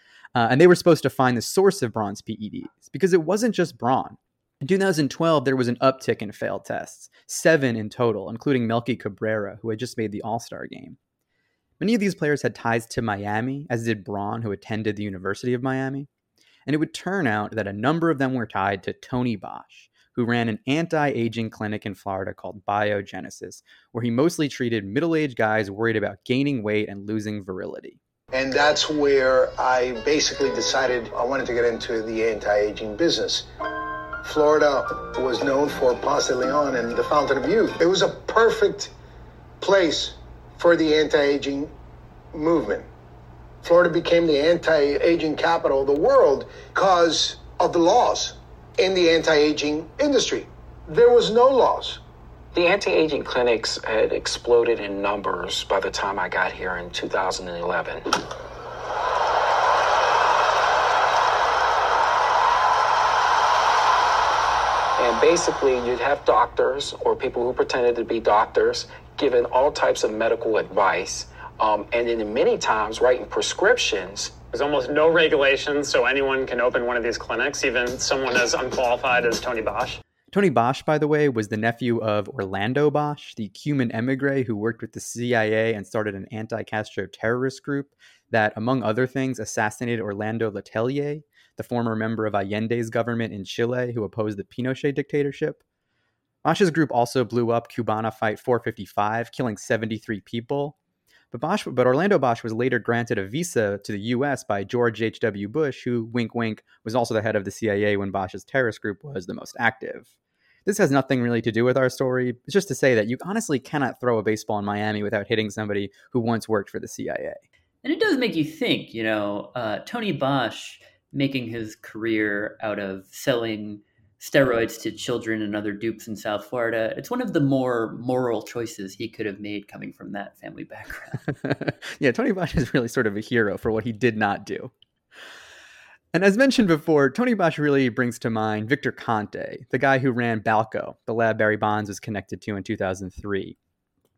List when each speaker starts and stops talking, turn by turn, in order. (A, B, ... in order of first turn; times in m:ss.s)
0:00.3-0:11.0 A
0:11.8-0:16.1 A
0:16.6-0:28.0 A
0:28.3-0:33.5 B
0:34.2-0:38.9 B
0:39.6-0:41.7 B
0:42.3-0:42.9 B
0:43.6-0:52.0 B
0:52.5-0:58.1 C
1:05.0-1:14.4 C
1:14.5-1:20.0 D
1:20.3-1:35.6 A
1:36.4-1:40.8 A
1:41.3-1:50.1 A
1:50.6-1:57.4 A
1:57.8-2:11.2 E
2:11.4-2:14.7 A
2:16.1-2:23.6 A